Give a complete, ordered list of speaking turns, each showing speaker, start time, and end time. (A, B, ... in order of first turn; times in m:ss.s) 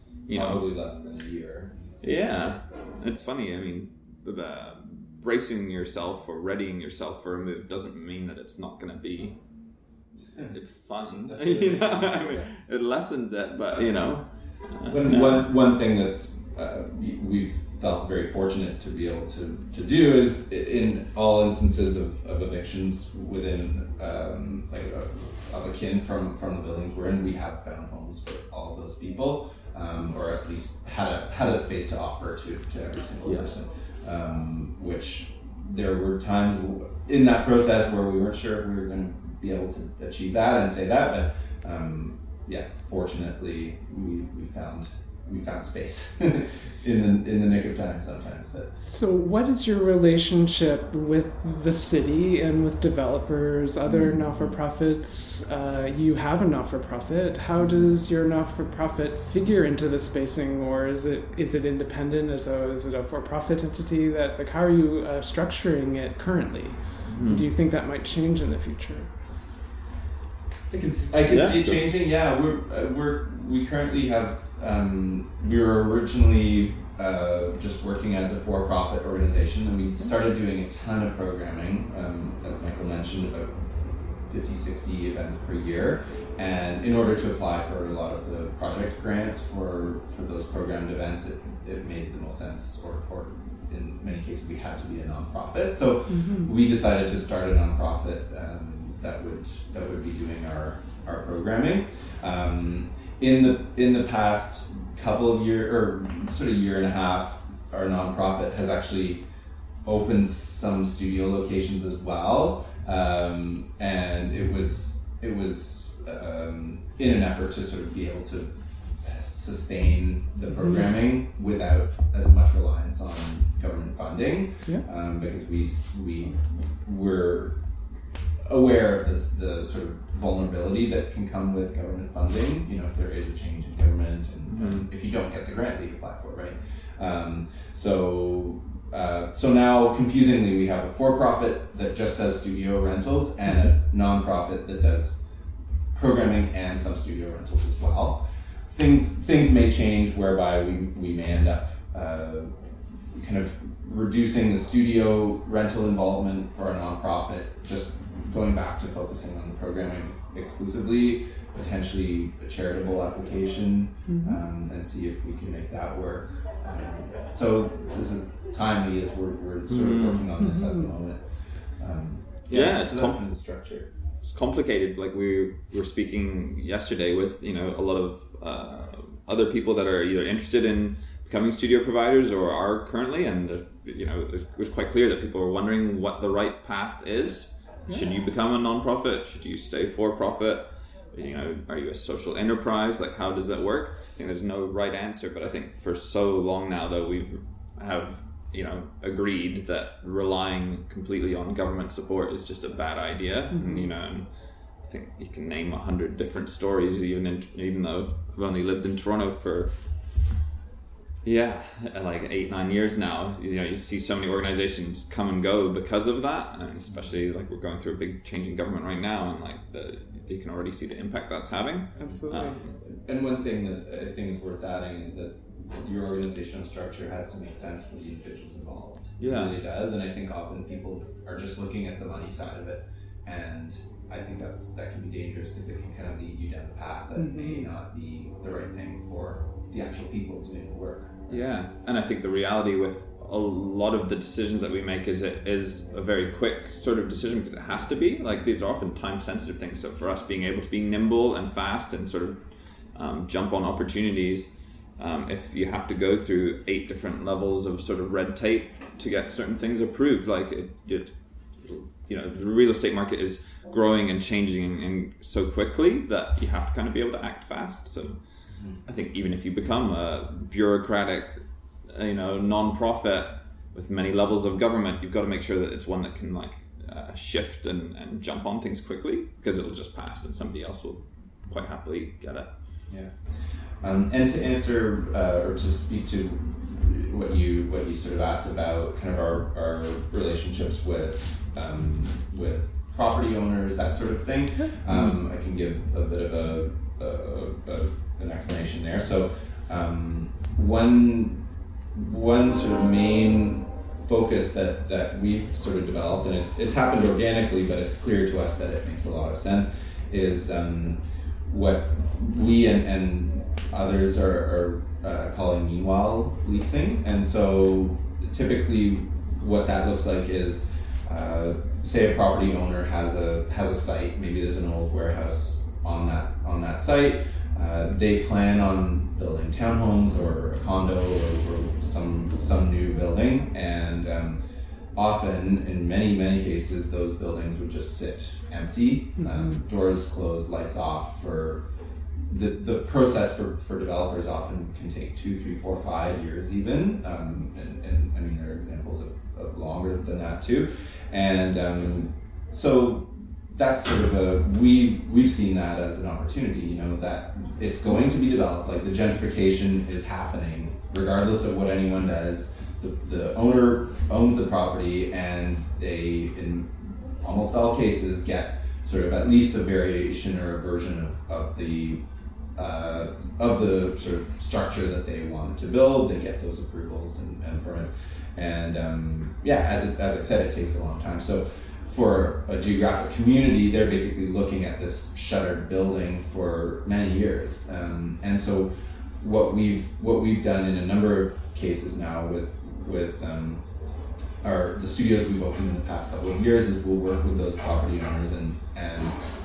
0:00.3-0:00.6 A
0:00.3-0:02.6 B
0:02.0-0:09.4 A
0:10.3-0:12.3 B
0:10.5-0:15.5 A
0:14.9-0:48.7 B
0:33.2-0:33.5 A
0:48.9-1:09.1 C
0:53.9-0:54.4 B
1:07.1-1:07.5 A
1:10.7-1:49.2 B
1:11.3-1:11.8 A
1:36.1-1:36.5 C
1:49.8-2:07.6 B
2:08.4-2:25.3 B
2:14.5-2:14.9 A
2:25.9-2:53.9 B
2:44.1-2:44.4 C
2:49.7-2:50.3 A
2:50.4-2:50.8 C
2:52.5-2:53.2 A
2:54.2-3:24.3 A
3:23.5-3:23.9 C
3:24.8-3:29.7 A
3:31.2-3:42.7 A
3:42.0-3:42.6 C
3:42.1-4:01.4 B
3:49.2-3:49.6 A
3:57.2-3:57.7 C
4:01.3-4:12.4 A
4:13.0-4:28.2 A
4:28.5-4:28.8 B
4:28.9-4:31.4 A
4:31.9-4:42.6 A
4:42.9-5:34.4 B
4:54.9-4:55.1 A
5:35.0-5:41.6 B
5:39.2-5:39.6 C
5:42.3-6:12.0 B
6:12.6-6:33.6 B
6:34.4-6:39.2 B